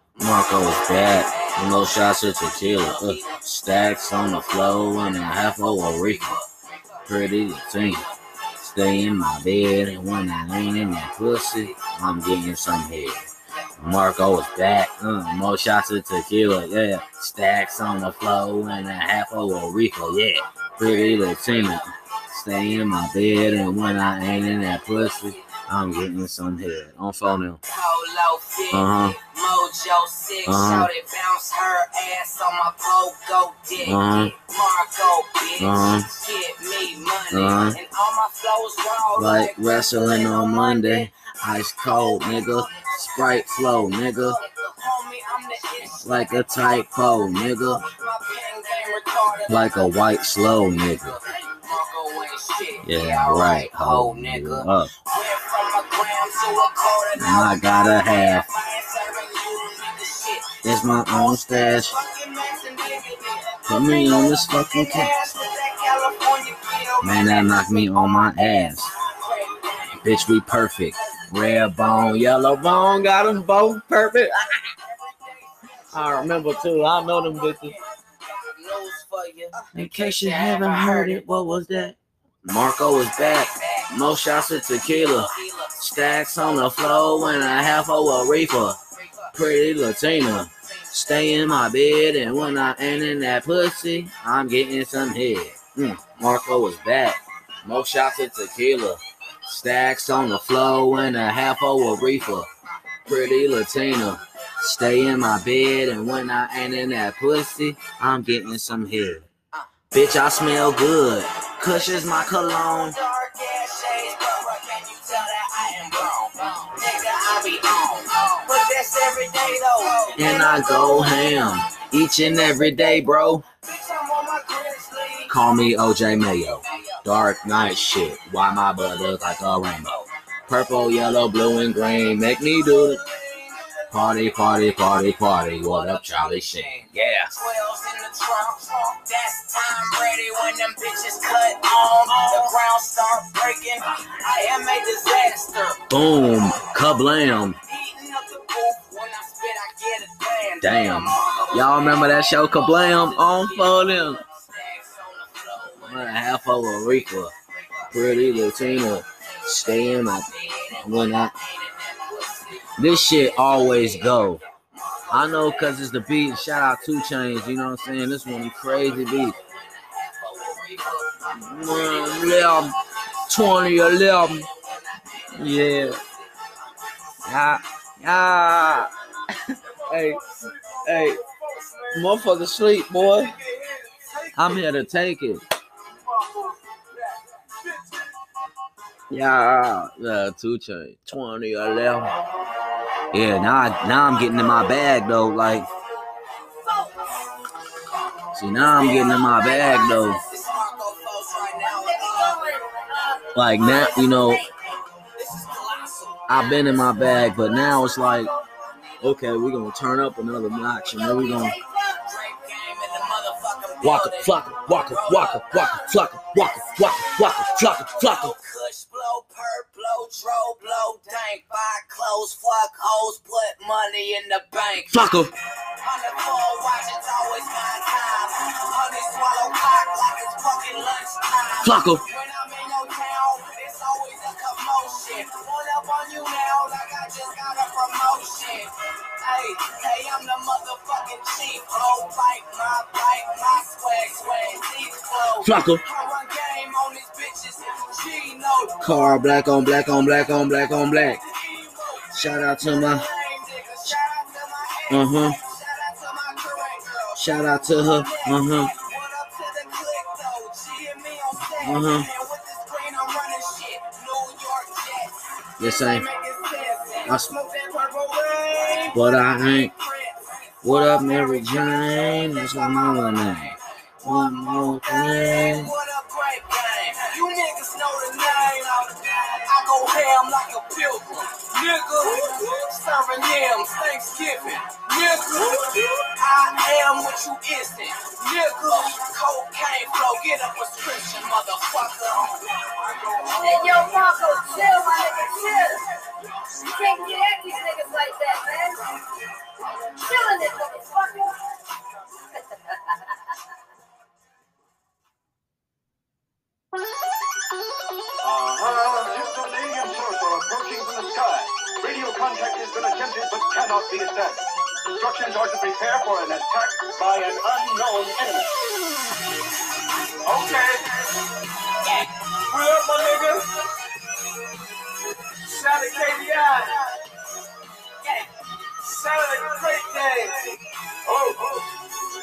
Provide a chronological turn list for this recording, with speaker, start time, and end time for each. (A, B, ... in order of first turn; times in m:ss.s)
0:00.2-0:14.5 A
0:00.2-0:06.4 B
0:07.1-0:08.0 B
0:08.6-0:13.2 B
0:13.8-0:27.6 B
0:18.0-0:18.9 A
0:20.8-0:25.6 A
0:27.6-1:10.2 A
0:28.7-0:29.2 B
0:30.4-0:30.9 B
0:33.8-0:34.3 B
0:35.6-0:36.1 B
0:37.3-0:37.8 B
0:39.2-0:44.4 B
0:46.0-0:47.8 B
0:49.5-0:51.2 B
0:52.8-0:54.9 B
0:57.2-0:58.4 B
1:00.6-1:01.9 B
1:03.7-1:05.1 B
1:07.0-1:08.9 B
1:10.0-1:14.6 B
1:14.8-1:21.2 A
1:15.9-1:17.7 B
1:19.7-1:28.8 B
1:23.1-1:29.4 A
1:29.3-1:42.5 B
1:30.0-1:33.2 A
1:43.0-1:49.3 B
1:49.9-1:53.0 B
1:51.5-2:01.0 A
2:00.2-2:03.4 B
2:02.8-2:05.4 A
2:05.3-2:09.9 B
2:06.1-2:07.0 A
2:08.8-2:10.1 A
2:10.5-2:13.0 B
2:12.2-2:26.6 A
2:13.9-2:17.3 B
2:25.9-2:27.6 B
2:27.6-2:57.2 A
2:30.6-2:34.2 B
2:35.8-2:37.3 B
2:37.9-2:41.3 B
2:42.8-2:44.4 B
2:45.1-2:49.3 B
2:51.4-2:52.7 B
2:53.3-2:54.5 B
2:55.3-2:56.0 B
2:57.2-2:58.9 B
2:59.5-3:00.2 B
2:59.6-3:02.3 C
3:00.8-3:01.2 B
3:01.9-3:03.3 B
3:02.9-3:04.7 C
3:04.4-3:05.4 B
3:05.9-3:08.1 C
3:09.1-3:12.1 B
3:13.1-3:15.7 B
3:18.3-3:20.2 B
3:18.7-3:24.4 A
3:23.3-3:24.4 B
3:25.0-3:29.1 A
3:26.3-3:28.3 B
3:29.0-3:31.6 B
3:30.9-3:45.2 A
3:33.8-3:38.4 B
3:44.9-3:45.3 B
3:45.8-4:08.9 A
3:51.6-3:52.0 B
4:05.4-4:05.8 B
4:08.8-4:11.2 B
4:09.7-4:52.7 A
4:12.1-4:13.1 B
4:14.9-4:15.4 B
4:17.2-4:18.7 B
4:21.6-4:22.1 B
4:25.6-4:26.0 B
4:27.0-4:27.3 B
4:28.9-4:29.7 B
4:30.6-4:35.7 B
4:42.0-4:42.4 C
4:45.1-4:46.0 C
4:52.8-4:54.5 C
4:53.4-4:55.8 D
4:56.6-4:56.9 C
4:56.6-4:58.8 D
4:59.9-5:01.4 D
5:02.5-5:02.8 D
5:08.2-5:14.4 E
5:15.0-5:18.5 E
5:20.2-5:21.2 C
5:21.8-5:22.1 A
5:22.5-5:23.4 C
5:25.4-5:26.8 C
5:28.0-5:28.3 A
5:28.8-5:31.6 C